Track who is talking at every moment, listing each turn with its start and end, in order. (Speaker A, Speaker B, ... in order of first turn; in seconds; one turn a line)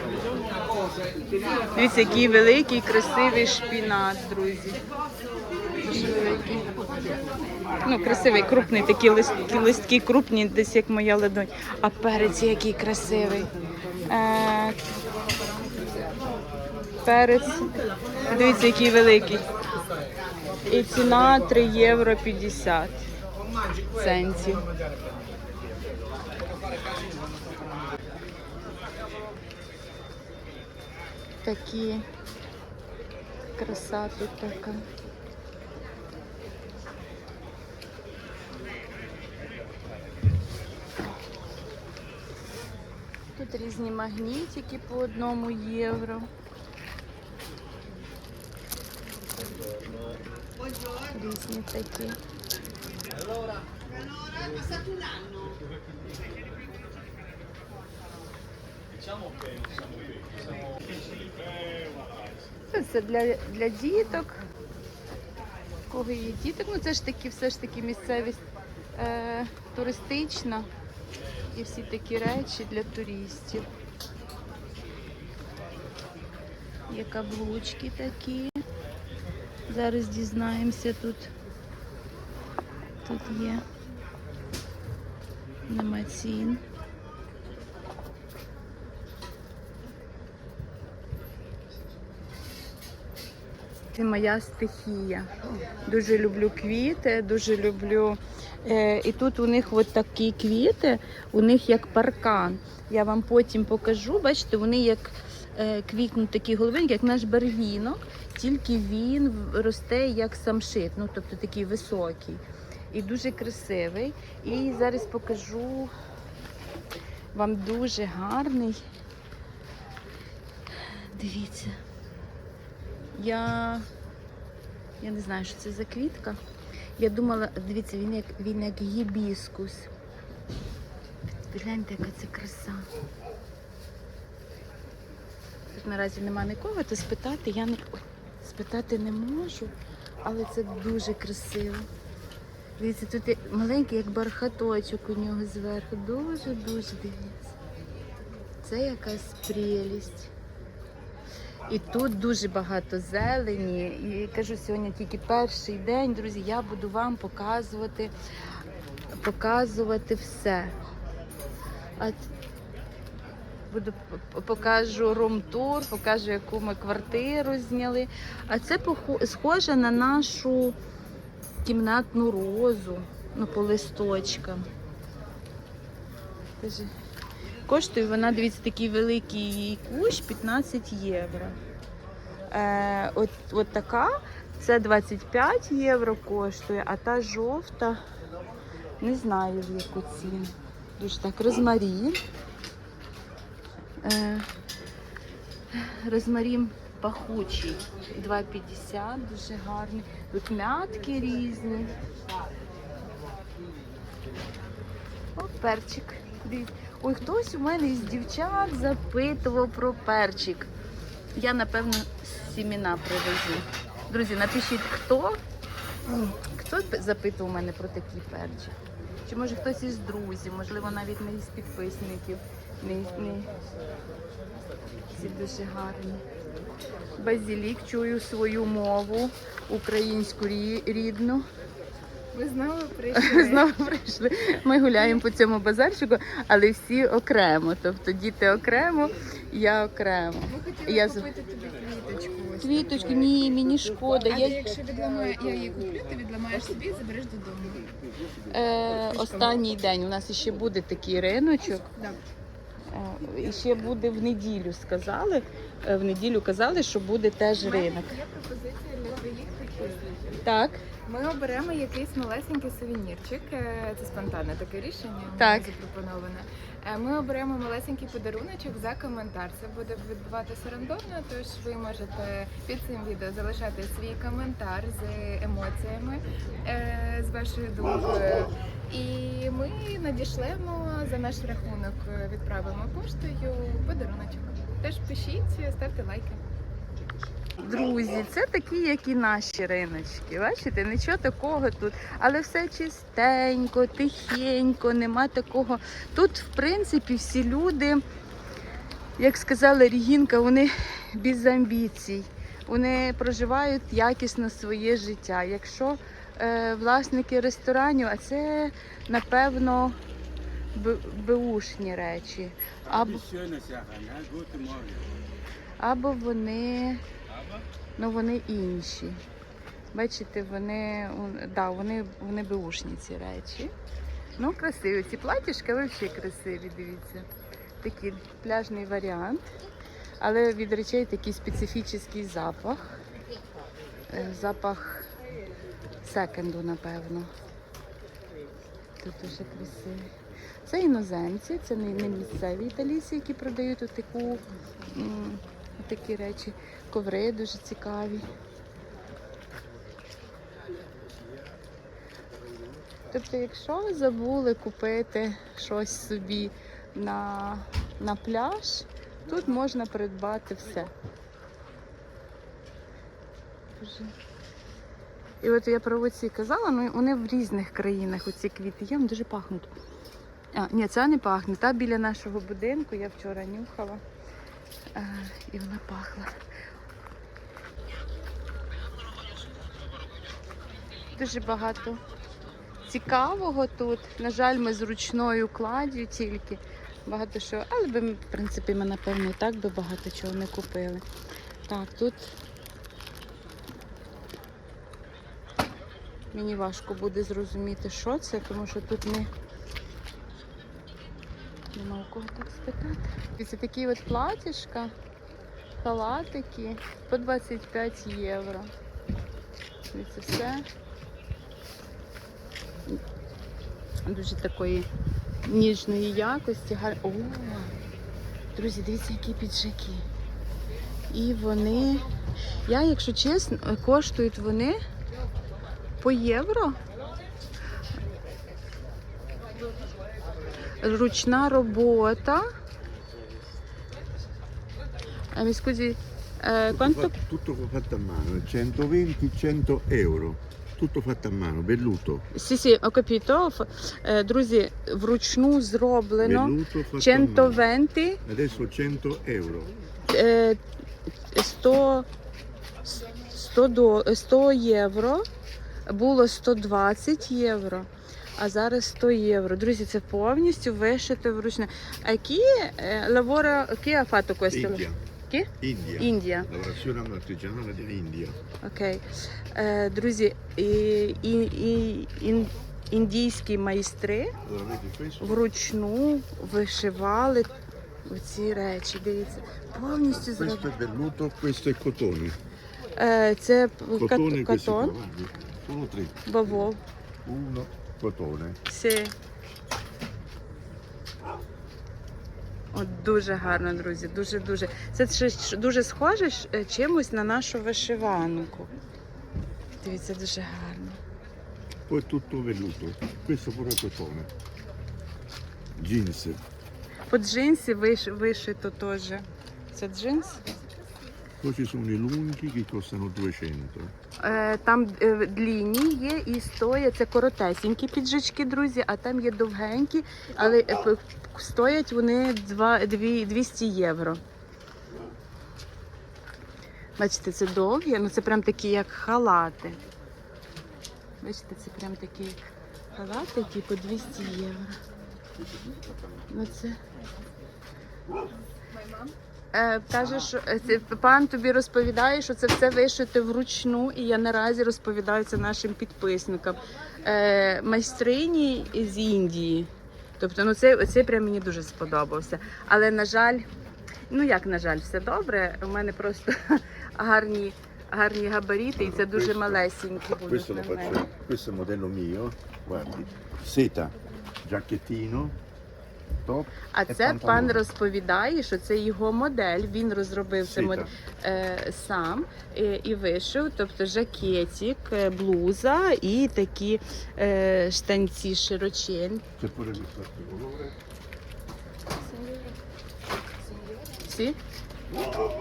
Speaker A: 1.8-4.8
Speaker A: 5.8-6.7
Speaker A: 7.8-13.5
Speaker A: 14.1-14.8
Speaker A: 17.0-17.7
Speaker A: 18.3-19.4
Speaker A: 20.7-23.0
Speaker A: 23.9-24.7
Speaker A: 31.4-32.0
Speaker A: 33.6-34.8
Speaker A: 43.4-46.3
Speaker A: 51.1-52.2
Speaker A: 62.7-64.4
Speaker A: 65.9-68.4
Speaker A: 69.0-70.7
Speaker A: 71.5-73.7
Speaker A: 76.9-78.6
Speaker A: 79.7-81.3
Speaker A: 83.0-83.6
Speaker A: 85.7-86.6
Speaker A: 93.9-95.3
Speaker A: 95.8-115.9
Speaker A: 117.3-118.8
Speaker A: 120.8-121.8
Speaker A: 123.2-123.9
Speaker A: 125.0-126.4
Speaker A: 127.0-129.9
Speaker A: 131.5-132.9
Speaker A: 135.7-139.7
Speaker A: 140.2-141.9
Speaker A: 142.8-147.4
Speaker A: 148.6-150.3
Speaker A: 151.7-158.1
Speaker A: 159.2-160.8
Speaker A: 162.0-162.2
Speaker A: 163.7-170.8
Speaker A: 171.6-174.7
Speaker A: 176.6-176.9
Speaker A: 177.7-181.6
Speaker A: 182.5-188.0
Speaker A: 189.0-192.2
Speaker A: 194.0-194.5
Speaker A: 195.7-201.9
Speaker A: 205.4-210.7
Speaker A: 211.4-215.4
Speaker A: 216.4-223.5
Speaker A: 225.1-226.2
Speaker A: 227.2-231.5
Speaker B: 232.3-233.7
Speaker A: 233.1-241.3
Speaker B: 240.5-243.3
Speaker A: 242.6-244.7
Speaker B: 244.3-247.9
Speaker A: 248.5-251.9
Speaker B: 249.1-249.6
Speaker A: 252.9-258.1
Speaker B: 257.6-260.3
Speaker A: 260.4-260.8
Speaker B: 261.1-286.4
Speaker A: 265.4-265.7
Speaker A: 287.6-298.0
Speaker A: 299.2-310.0
Speaker A: 310.7-313.3
Speaker A: 315.8-317.0
Speaker A: 318.0-319.2
Speaker A: 319.9-323.7
Speaker A: 324.4-327.3
Speaker A: 327.8-329.5
Speaker A: 330.2-332.9
Speaker A: 334.1-335.1
Speaker A: 336.0-337.3
Speaker A: 339.0-340.1
Speaker A: 340.7-348.3
Speaker A: 353.1-360.9
Speaker A: 363.8-364.1
Speaker A: 365.4-369.7
Speaker A: 370.5-374.0
Speaker A: 374.9-376.4
Speaker A: 381.2-382.0
Speaker A: 382.9-391.0
Speaker A: 391.7-392.3
Speaker A: 396.3-399.3
Speaker A: 401.7-404.9
Speaker A: 405.8-408.7
Speaker A: 409.9-410.7
Speaker A: 414.1-414.9
Speaker A: 415.5-417.7
Speaker A: 418.6-420.1
Speaker A: 421.1-422.1
Speaker A: 422.7-424.8
Speaker A: 426.0-426.8
Speaker A: 430.8-432.5
Speaker A: 435.3-437.2
Speaker C: 436.7-442.3
Speaker A: 442.3-448.2
Speaker C: 446.2-447.6
Speaker C: 448.2-449.7
Speaker A: 450.1-450.6
Speaker A: 451.3-452.1
Speaker A: 452.9-455.3
Speaker A: 455.9-466.5
Speaker C: 464.5-465.0
Speaker C: 465.6-468.4
Speaker A: 468.6-474.3
Speaker C: 474.4-475.4
Speaker A: 475.2-477.5
Speaker A: 478.1-480.7
Speaker C: 480.1-482.4
Speaker A: 483.0-484.9
Speaker C: 484.0-486.7
Speaker A: 486.3-486.8
Speaker C: 487.3-488.6
Speaker A: 488.7-489.1
Speaker A: 492.7-498.7
Speaker A: 499.8-501.0
Speaker C: 501.9-504.3
Speaker C: 505.8-506.4
Speaker A: 507.1-510.4
Speaker C: 511.4-513.9
Speaker A: 514.2-524.2
Speaker A: 527.0-529.8
Speaker A: 531.2-532.4
Speaker A: 532.9-534.8
Speaker C: 535.4-536.3
Speaker A: 536.3-536.8
Speaker B: 538.7-539.1
Speaker A: 539.5-553.5
Speaker A: 554.1-561.0
Speaker C: 558.8-559.6
Speaker C: 560.1-565.4
Speaker C: 566.2-567.6
Speaker A: 566.7-579.2
Speaker C: 570.5-570.9
Speaker C: 579.4-580.8
Speaker B: 582.0-582.6
Speaker B: 583.4-584.0
Speaker A: 584.0-584.4